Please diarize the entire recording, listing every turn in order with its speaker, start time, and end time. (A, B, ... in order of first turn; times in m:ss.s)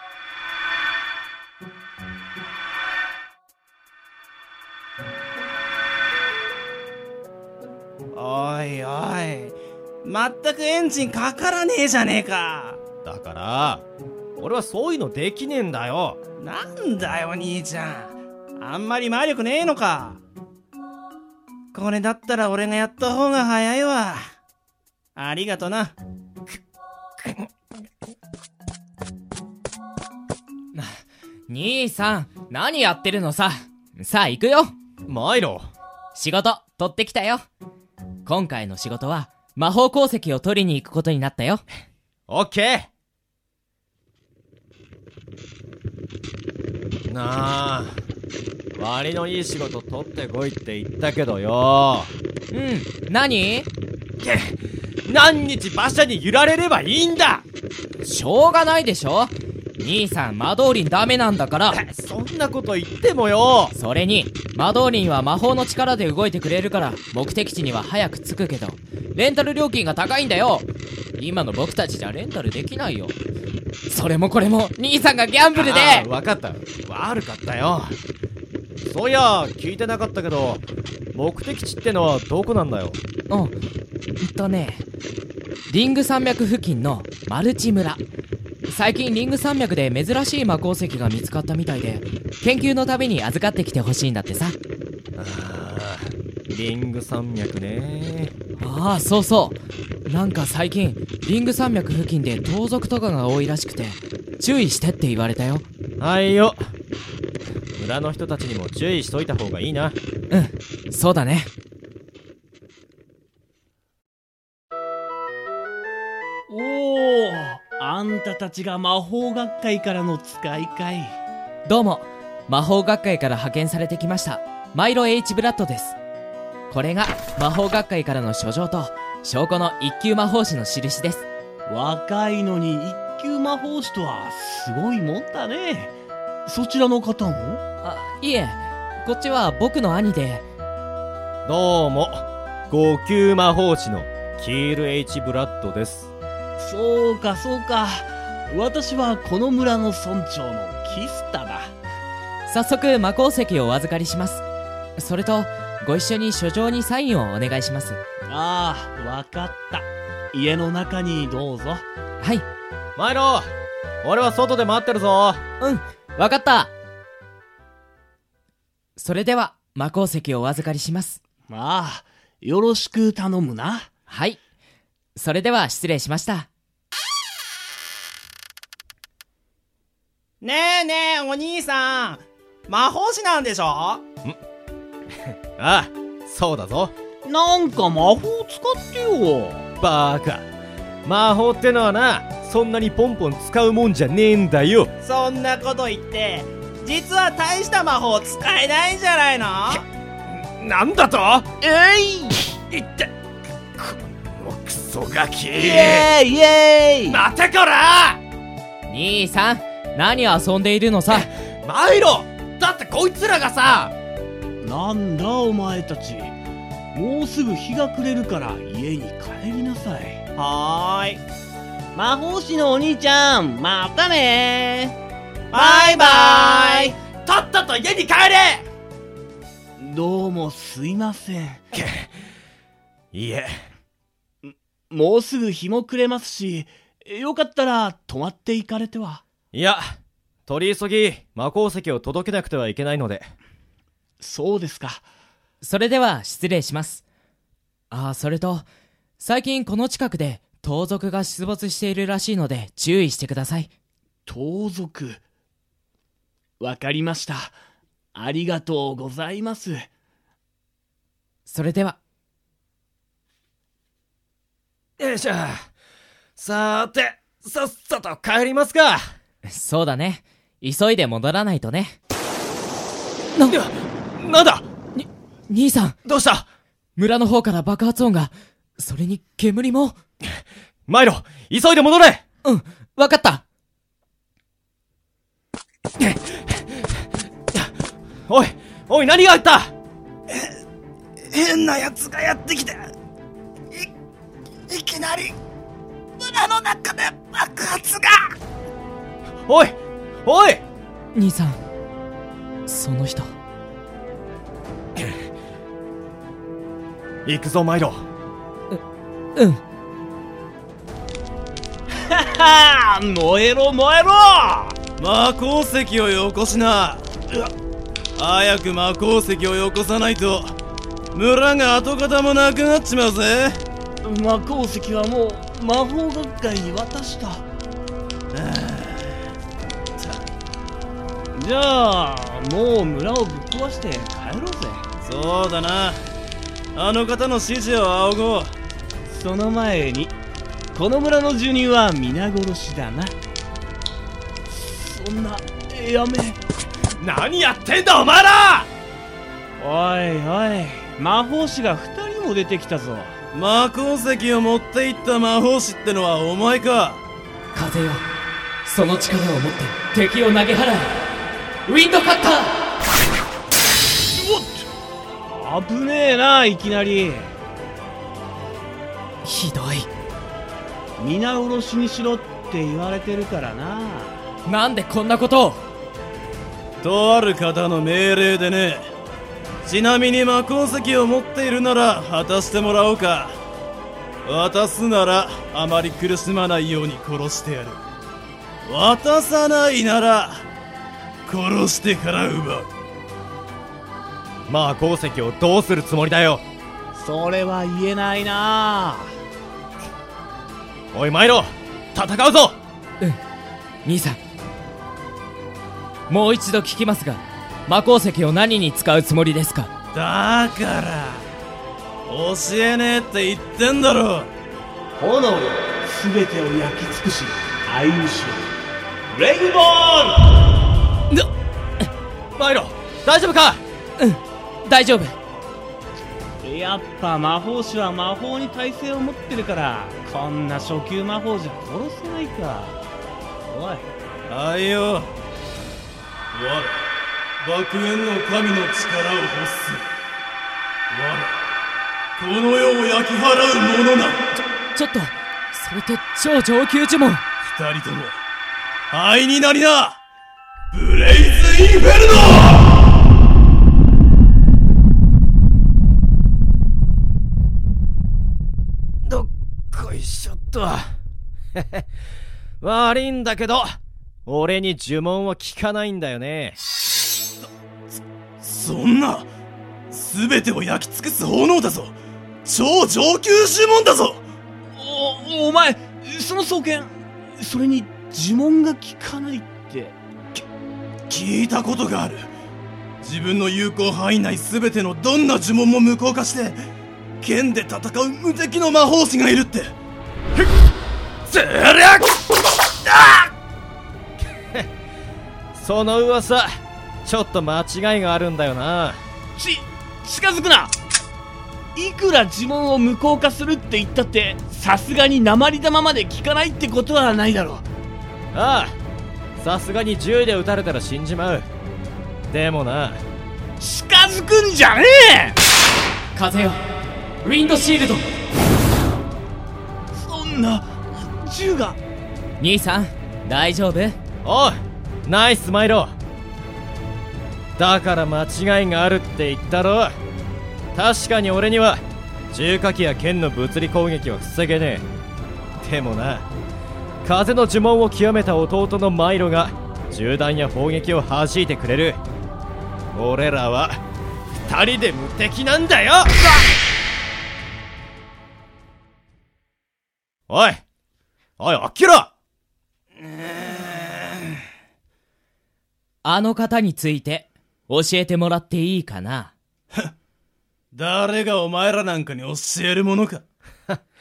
0:08.1-0:12.8 A
0:13.0-0:13.8 B
0:14.4-0:16.2 B
0:16.4-0:20.2 A
0:21.7-0:24.3 A
0:25.2-0:26.0 A
0:31.5-0:34.7 C
0:35.1-0:35.7 B
0:36.2-0:37.4 C
0:38.3-0:41.6 C
0:42.3-0:42.9 B
0:47.1-0:48.0 B
0:48.8-0:52.1 B
0:52.5-0:53.7 C
0:54.2-0:57.4 B
0:58.0-1:01.8 C
1:01.7-1:03.7 B
1:03.7-1:10.7 C
1:11.2-1:13.2 C
1:13.9-1:16.1 C
1:15.6-1:18.0 B
1:18.8-1:23.0 B
1:24.2-1:24.8 C
1:25.7-1:28.0 C
1:28.7-1:34.6 C
1:35.2-1:38.3 B
1:38.6-1:45.6 C
1:46.0-1:46.6 B
1:47.8-1:50.0 B
1:50.3-1:51.5 C
1:56.5-2:01.1 D
2:01.7-2:06.0 C
2:06.7-2:11.3 C
2:11.7-2:15.9 D
2:16.5-2:17.6 D
2:17.8-2:20.4 C
2:21.5-2:26.1 B
2:26.6-2:31.7 D
2:32.5-2:34.4 C
2:35.0-2:38.0 C
2:38.3-2:41.8 D
2:43.0-2:43.5 B
2:44.0-2:45.4 B
2:45.6-2:46.7 C
2:49.0-2:51.2 C
2:51.5-2:53.9 D
2:54.1-2:54.4 C
2:55.2-2:56.5 C
3:00.4-3:04.0 A
3:05.6-3:06.9 B
3:07.2-3:09.6 D
3:09.8-3:10.4 B
3:11.0-3:14.9 B
3:15.0-3:19.8 A
3:20.6-3:21.5 B
3:21.6-3:22.4 D
3:22.7-3:23.1 B
3:23.8-3:26.1 B
3:25.6-3:27.2 D
3:27.1-3:28.2 B
3:28.9-3:31.3 C
3:31.1-3:33.9 B
3:34.6-3:36.3 D
3:36.9-3:40.2 D
3:40.4-3:41.2 A
3:41.9-3:45.0 D
3:45.5-3:46.9 A
3:45.5-3:46.9 D
3:47.3-3:48.5 B
3:49.8-3:51.6 D
3:51.7-3:52.1 B
3:53.1-3:53.6 B
3:54.4-3:59.2 D
3:59.5-4:00.0 B
4:00.5-4:03.3 B
4:04.2-4:05.1 D
4:05.6-4:07.0 C
4:07.9-4:08.7 C
4:09.2-4:13.7 C
4:14.3-4:15.2 D
4:16.6-4:17.6 D
4:18.2-4:19.9 D
4:21.5-4:22.0 C
4:25.0-4:25.7 B
4:26.4-4:29.1 B
4:29.5-4:32.0 C
4:33.5-4:34.7 B
4:35.0-4:36.0 C
4:36.0-4:36.4 B
4:37.0-4:40.0 C
4:40.9-4:42.2 B
4:42.4-4:43.4 C
4:46.0-4:46.8 B
4:48.3-4:49.7 B
4:51.3-4:52.9 A
4:54.7-4:55.3 A
4:56.2-4:58.2 A
4:59.5-5:00.6 B
5:01.1-5:01.6 C
5:02.7-5:03.3 C
5:07.3-5:08.0 B
5:11.9-5:14.8 D
5:15.0-5:17.1 E
5:18.2-5:20.5 E
5:21.2-5:23.6 E
5:24.0-5:27.4 D
5:31.4-5:34.8 D
5:35.0-5:35.9 A
5:36.8-5:38.1 A
5:39.1-5:40.2 D
5:40.7-5:43.2 D
5:44.5-5:46.4 D
5:47.0-5:48.7 B
5:49.6-5:53.2 D
5:53.3-5:57.0 E
5:57.5-5:58.0 C
5:58.6-6:01.0 C
6:01.7-6:02.5 C
6:04.1-6:04.7 D
6:05.3-6:07.3 D
6:09.2-6:09.9 C
6:11.0-6:14.2 D
6:14.5-6:15.6 C
6:16.8-6:18.8 E
6:19.7-6:23.3 E
6:24.3-6:27.8 E
6:28.7-6:30.4 E
6:31.3-6:32.7 E
6:34.5-6:36.4 B
6:36.9-6:39.1 D
6:40.9-6:42.6 B
6:43.8-6:44.2 C
6:46.1-6:49.7 C
6:50.0-6:51.2 E
6:52.1-6:54.3 E
6:55.0-6:58.5 D
6:59.1-7:00.4 D
7:02.4-7:03.6 B
7:04.0-7:05.2 C
7:06.4-7:12.8 D
7:13.5-7:13.9 D
7:14.3-7:15.1 E
7:16.3-7:16.7 E
7:17.4-7:19.8 E
7:20.9-7:21.3 E
7:22.2-7:24.2 E
7:24.7-7:27.2 C
7:27.5-7:28.2 E
7:28.9-7:30.0 E
7:30.7-7:32.5 E
7:39.0-7:41.0 B
7:41.6-7:41.8 B
7:42.6-7:46.6 B
7:48.4-7:49.3 E
7:49.9-7:52.0 E
7:52.5-7:54.2 E
7:54.8-8:00.0 D
8:01.1-8:02.3 E
8:03.0-8:06.6 E
8:07.2-8:09.7 E
8:11.3-8:12.2 B
8:12.8-8:13.3 B
8:15.5-8:19.0 B
8:19.4-8:20.7 D
8:21.8-8:27.7 D
8:28.3-8:28.8 B
8:29.4-8:31.5 B
8:32.3-8:33.0 B
8:33.6-8:35.4 D
8:36.2-8:36.6 C
8:37.2-8:38.0 C
8:39.9-8:41.8 D
8:42.4-8:44.0 C
8:44.2-8:46.0 B
8:47.6-8:50.0 B
8:50.7-8:54.9 B
8:55.6-8:56.3 B
8:57.0-9:02.0 B
9:02.9-9:03.8 B
9:04.5-9:06.2 B
9:10.3-9:10.6 B
9:11.4-9:12.1 B
9:16.0-9:19.3 C
9:20.7-9:23.2 E